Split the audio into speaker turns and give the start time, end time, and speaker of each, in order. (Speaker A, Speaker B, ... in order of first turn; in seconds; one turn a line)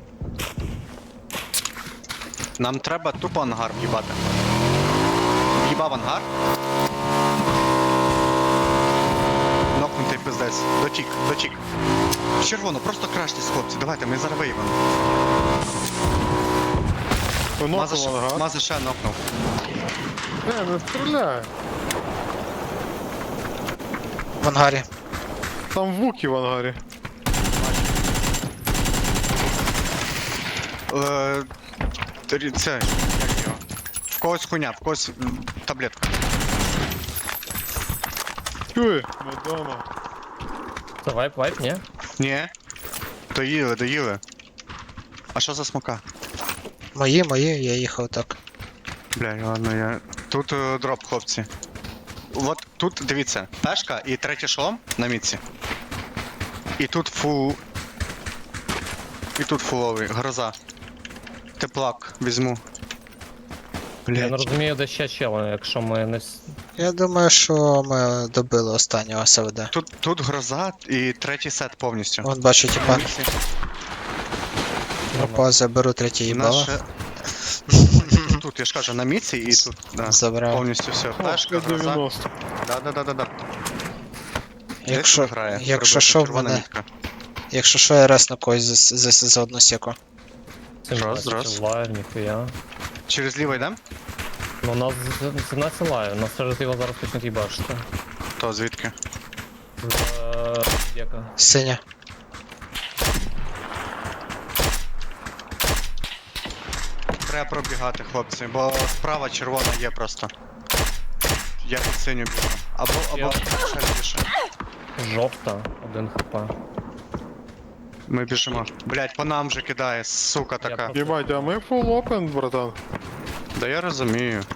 Speaker A: 2.6-4.2
Speaker A: 5.6-6.3
Speaker A: 9.7-11.6
Speaker A: 12.4-14.8
Speaker B: 17.6-18.4
Speaker A: 17.7-19.2
Speaker B: 20.4-21.5
Speaker C: 24.4-24.9
Speaker B: 25.7-26.8
Speaker A: 27.6-28.3
Speaker A: 30.9-31.5
Speaker A: 32.3-33.6
Speaker A: 34.2-36.0
Speaker B: 38.7-39.9
Speaker D: 41.0-41.8
Speaker A: 42.2-42.5
Speaker A: 43.3-44.2
Speaker A: 45.4-46.0
Speaker C: 47.0-48.4
Speaker A: 49.1-51.5
Speaker A: 52.3-55.4
Speaker A: 56.8-57.6
Speaker A: 59.4-60.5
Speaker A: 61.6-62.6
Speaker A: 64.1-64.5
Speaker D: 64.1-66.6
Speaker C: 66.8-69.7
Speaker A: 69.7-73.3
Speaker C: 72.2-73.1
Speaker D: 75.1-75.5
Speaker C: 75.2-76.8
Speaker A: 76.3-76.8
Speaker C: 77.7-78.4
Speaker A: 78.0-82.0
Speaker C: 79.5-80.7
Speaker B: 81.2-82.3
Speaker A: 82.6-83.5
Speaker C: 84.8-86.7
Speaker A: 84.9-86.9
Speaker C: 87.5-90.0
Speaker D: 90.8-92.5
Speaker A: 90.9-91.6
Speaker A: 93.1-93.8
Speaker D: 94.6-97.9
Speaker A: 98.4-99.0
Speaker D: 99.8-101.3
Speaker C: 101.4-101.8
Speaker A: 107.2-110.3
Speaker A: 111.6-114.3
Speaker D: 113.1-113.4
Speaker D: 115.0-116.5
Speaker A: 118.1-120.9
Speaker D: 120.6-121.5
Speaker B: 120.9-122.8
Speaker A: 123.6-124.5